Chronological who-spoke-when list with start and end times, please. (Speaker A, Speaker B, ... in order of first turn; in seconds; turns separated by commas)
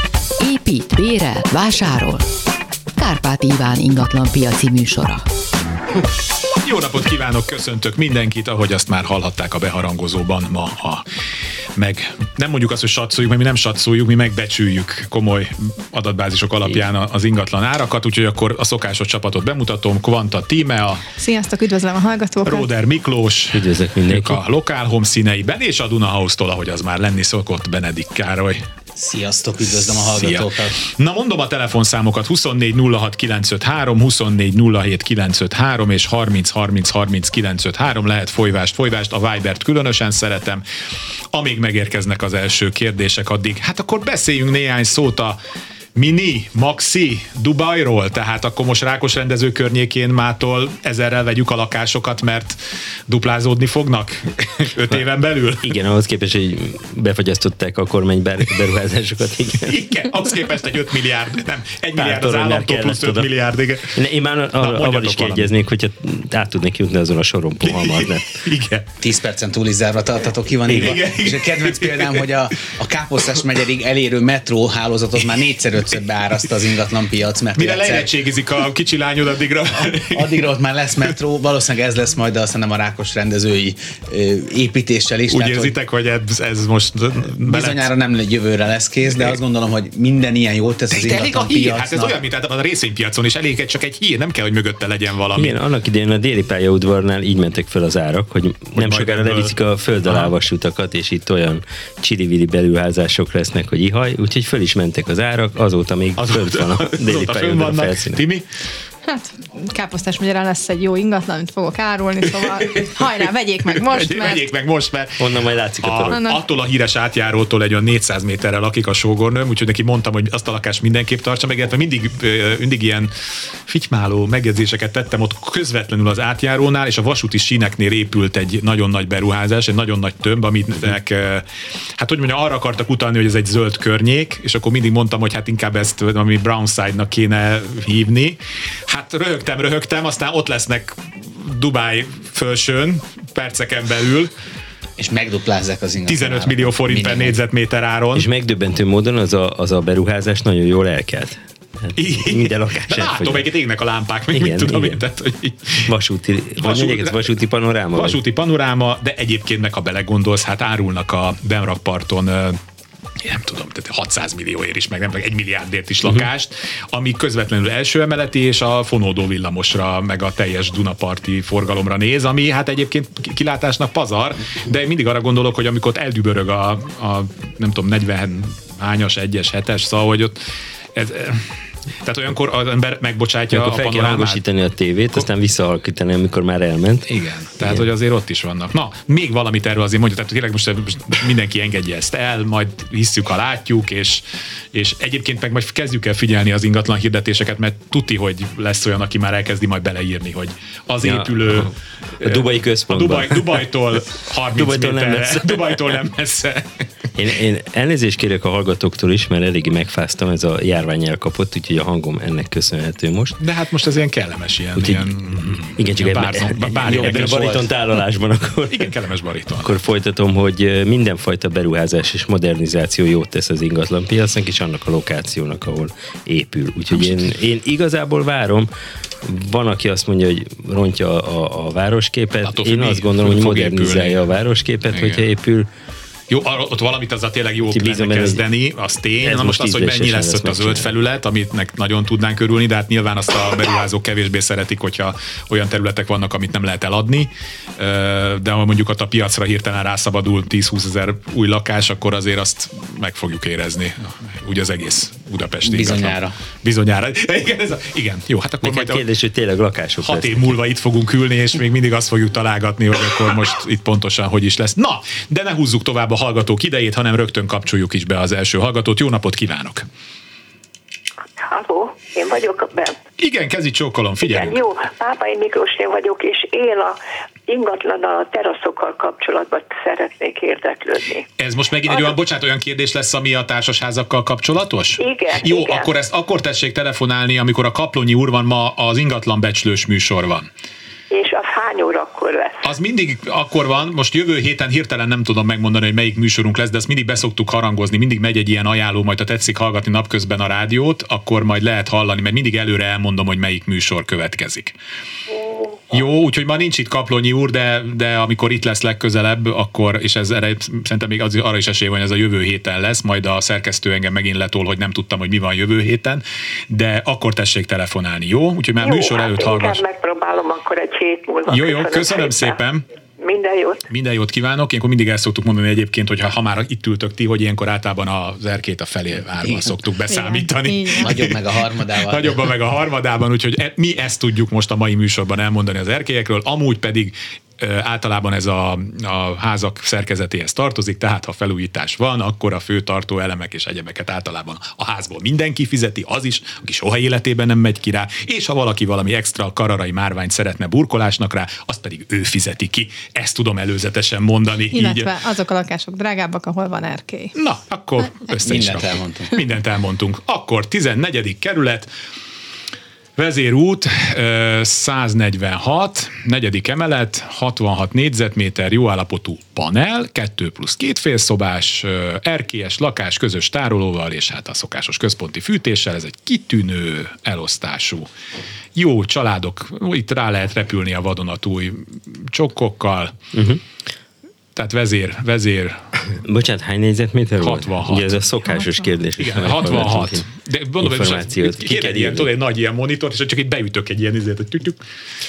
Speaker A: 0.4-2.2, Speaker A: 3.0-5.2, Speaker B: 6.6-11.0, Speaker B: 11.8-21.0, Speaker C: 21.2-22.7, Speaker B: 22.4-28.6, Speaker D: 23.5-24.4, Speaker E: 28.9-30.8, Speaker B: 29.7-40.6, Speaker B: 41.3-45.4, Speaker B: 45.9-55.7, Speaker D: 55.6-60.0, Speaker B: 59.6-64.0, Speaker D: 62.0-63.3, Speaker D: 63.9-68.4, Speaker B: 64.6-65.5, Speaker B: 67.6-68.9, Speaker E: 69.0-78.1, Speaker B: 70.7-72.3, Speaker B: 77.5-80.4, Speaker E: 79.8-85.7, Speaker B: 85.3-87.9, Speaker E: 87.4-92.2, Speaker B: 90.9-95.5, Speaker D: 95.3-108.2, Speaker B: 98.7-100.3, Speaker B: 106.2-108.5, Speaker C: 109.1-114.5, Speaker B: 112.4-112.9, Speaker B: 113.9-123.1, Speaker D: 115.2-116.2, Speaker C: 116.1-116.4, Speaker B: 123.7-131.4, Speaker B: 132.0-144.3, Speaker E: 145.0-147.4, Speaker B: 146.1-148.3, Speaker D: 148.2-153.5, Speaker B: 151.9-155.9, Speaker D: 154.3-155.0, Speaker D: 155.8-158.2, Speaker B: 156.6-157.2, Speaker B: 157.9-162.6, Speaker B: 163.2-180.4, Speaker B: 180.9-184.4, Speaker D: 183.5-187.1, Speaker B: 187.1-206.7, Speaker D: 201.0-203.6, Speaker D: 204.6-205.8, Speaker D: 207.2-213.4, Speaker B: 213.4-217.7, Speaker D: 214.8-215.1, Speaker D: 215.7-218.9, Speaker B: 218.7-219.7, Speaker D: 219.6-228.7, Speaker D: 229.2-235.7, Speaker B: 232.4-234.2, Speaker B: 234.9-235.2, Speaker B: 236.3-259.1, Speaker D: 237.7-238.4, Speaker D: 239.2-240.9, Speaker E: 255.7-256.4, Speaker D: 258.6-260.5, Speaker B: 260.0-269.9, Speaker F: 271.4-273.0, Speaker B: 273.2-274.6, Speaker F: 274.2-281.3, Speaker B: 281.4-290.5, Speaker F: 281.9-282.2, Speaker F: 285.0-285.9, Speaker F: 291.1-292.7, Speaker B: 292.6-304.8, Speaker B: 305.9-319.8, Speaker F: 318.8-322.6, Speaker B: 321.5-322.8, Speaker F: 323.2-323.9, Speaker B: 323.9-331.3, Speaker E: 329.4-329.8, Speaker C: 330.1-331.1, Speaker E: 331.0-332.5, Speaker B: 332.0-355.1, Speaker C: 354.7-357.3, Speaker B: 357.4-361.9, Speaker E: 358.4-359.3, Speaker B: 363.2-378.1, Speaker B: 378.8-383.1, Speaker D: 383.3-383.6, Speaker B: 384.6-385.8, Speaker D: 386.1-390.3, Speaker B: 387.4-388.2, Speaker C: 388.4-388.9, Speaker B: 389.2-394.8, Speaker D: 390.8-392.3